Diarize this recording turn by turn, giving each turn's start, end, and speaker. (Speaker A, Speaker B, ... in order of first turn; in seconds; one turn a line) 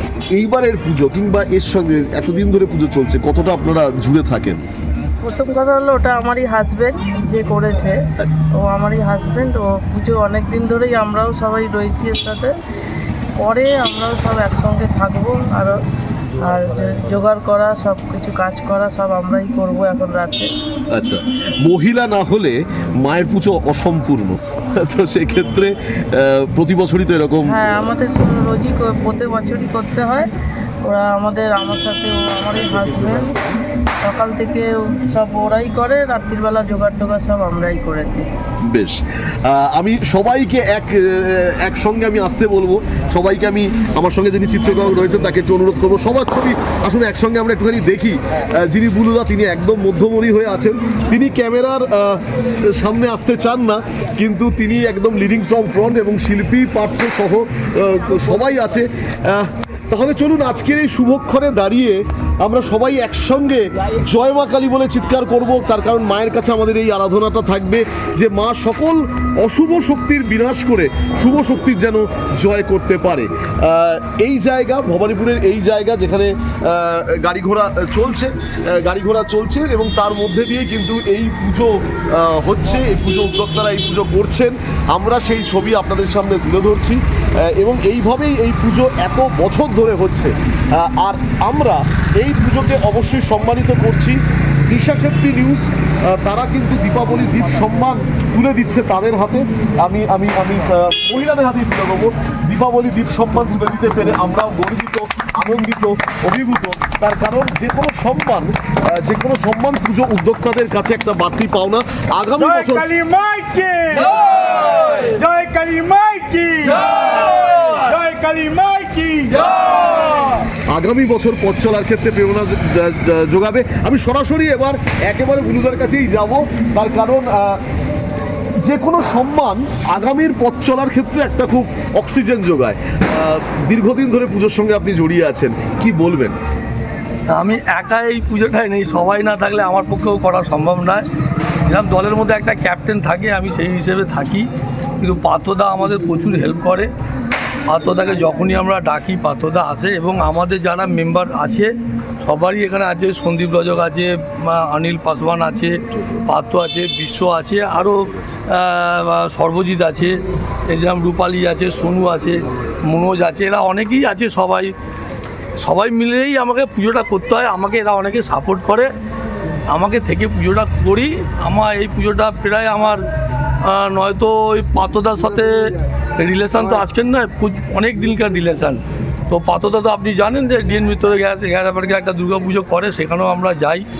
Speaker A: 0.3-4.6
Speaker B: 5.2-8.0
Speaker B: 8.6-12.5
Speaker B: 13.4-15.8
Speaker B: 16.4-20.5
Speaker A: 20.9-27.5
Speaker B: 27.4-30.3
Speaker B: 30.8-33.5
Speaker B: 34.0-38.3
Speaker A: 38.7-112.9
Speaker C: 112.4-120.2
Speaker A: 120.7-127.6
Speaker A: 128.6-136.3
Speaker D: 137.3-141.0
Speaker D: 141.7-144.4
Speaker D: 145.0-146.8
Speaker D: 147.7-151.7
Speaker D: 152.2-155.7
Speaker D: 156.3-157.9
Speaker D: 158.7-160.1
Speaker D: 160.7-162.3
Speaker D: 162.9-164.7
Speaker D: 165.6-168.8
Speaker D: 169.7-173.0
Speaker D: 173.8-175.5
Speaker D: 176.2-178.8
Speaker D: 179.3-183.8